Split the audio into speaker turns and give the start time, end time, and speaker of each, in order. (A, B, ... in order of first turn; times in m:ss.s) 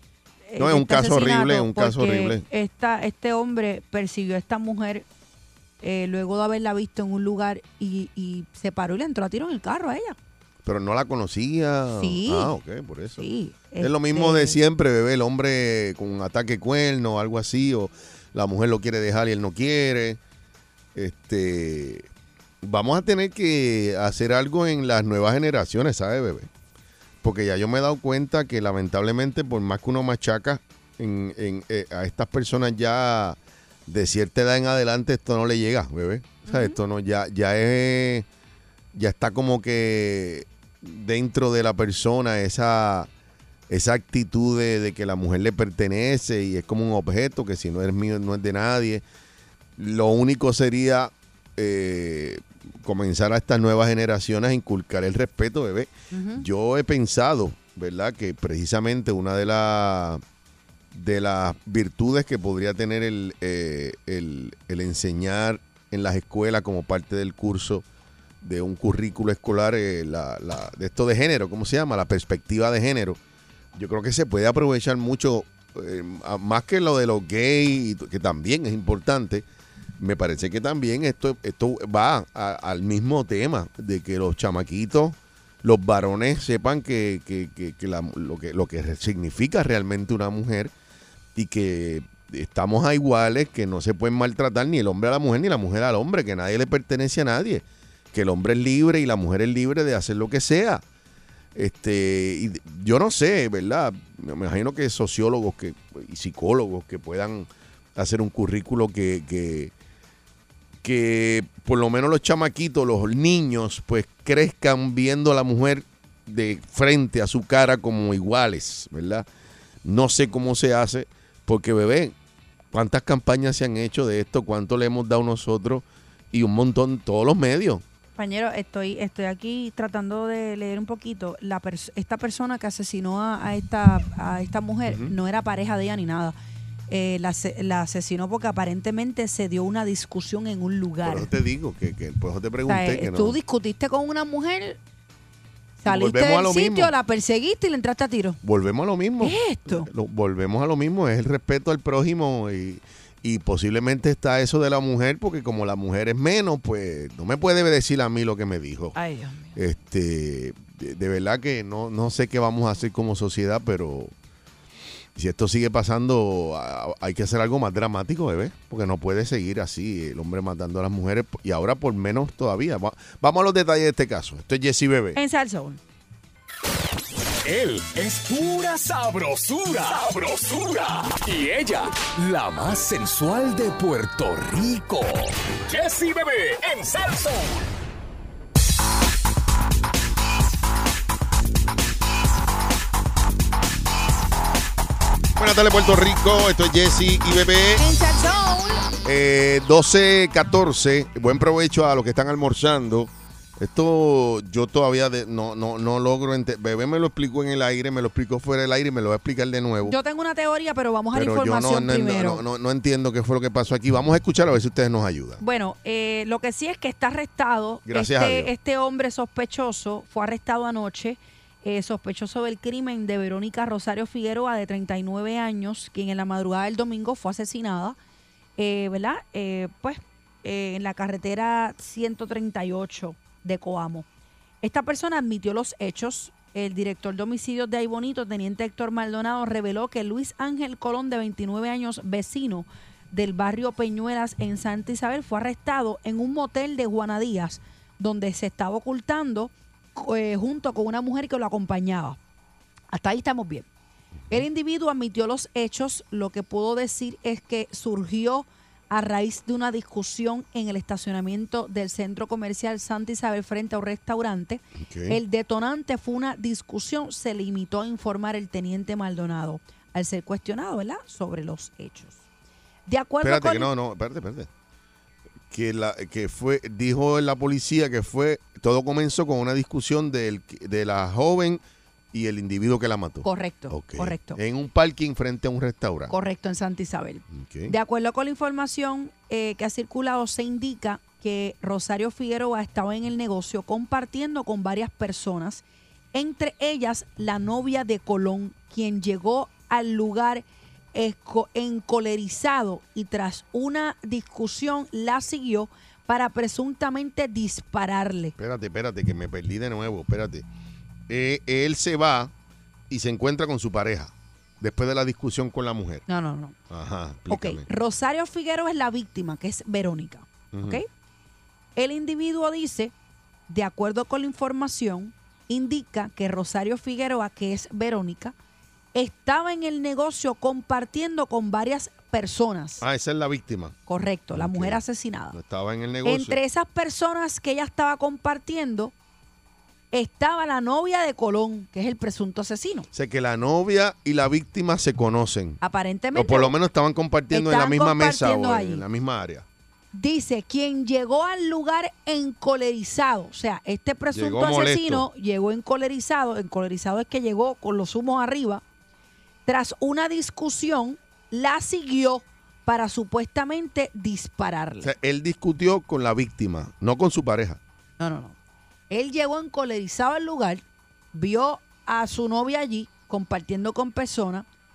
0:00.5-0:05.1 A
0:00.6-0:02.4 B
0:05.8-0:10.2 A
0:10.6-0:13.2 B
0:11.9-0:12.6 A
0:13.2-0:14.6 A
0:13.8-0:20.2 B
0:21.0-0:22.1 B
0:22.6-0:26.5 B
0:27.2-0:38.3 B
0:36.5-0:36.8 A
0:38.9-0:43.1 B
0:43.7-0:49.0 B
0:49.8-1:00.2 B
0:56.1-0:56.4 A
1:00.9-1:07.8 B
1:08.4-1:13.2 B
1:13.8-1:19.4 B
1:20.0-1:30.7 B
1:31.4-1:40.8 B
1:41.6-1:49.7 B
1:50.8-1:59.3 B
1:59.8-2:02.2 B
2:02.7-2:07.8 B
2:08.2-2:16.4 A
2:14.9-2:15.2 B
2:16.9-2:21.3 A
2:21.0-2:23.4 B
2:22.7-2:24.8 A
2:25.8-2:28.4 A
2:25.9-2:26.9 B
2:28.4-2:39.0 B
2:29.2-2:29.9 A
2:39.0-2:39.6 A
2:39.6-2:44.1 B
2:45.2-2:55.2 B
2:55.2-2:55.8 A
2:57.4-3:07.7 C
3:15.4-3:17.8 B
3:17.8-3:18.9 A
3:19.0-3:30.0 B
3:29.8-3:32.4 A
3:31.1-3:35.4 B
3:35.4-3:48.0 A
3:37.9-3:38.5 B
3:48.6-3:54.1 A
3:54.6-4:12.2 A
4:12.9-4:13.7 A
4:14.3-4:32.2 A
4:24.8-4:25.2 B
4:32.9-4:33.7 A
4:33.2-4:34.5 B
4:35.5-4:46.1 B
4:43.2-4:44.4 A
4:46.1-5:08.4 A
4:47.3-4:47.8 B
5:08.4-5:10.5 B
5:11.1-5:12.3 B
5:12.9-5:16.0 B
5:16.1-5:16.6 A
5:16.7-5:17.6 B
5:17.3-5:20.9 A
5:20.5-5:20.8 B
5:21.8-5:22.9 A
5:23.5-5:28.4 A
5:28.9-5:32.8 A
5:32.8-5:33.8 B
5:33.9-5:35.4 A
5:34.4-5:34.8 B
5:35.3-5:36.4 B
5:36.0-5:38.9 A
5:39.9-5:42.9 A
5:42.9-5:45.6 B
5:45.6-5:46.5 A
5:46.1-5:49.5 B
5:47.3-5:48.8 A
5:49.9-5:58.6 A
5:54.1-5:55.1 B
5:59.5-6:04.9 A
6:04.8-6:07.6 B
6:08.0-6:08.4 A
6:08.9-6:14.4 A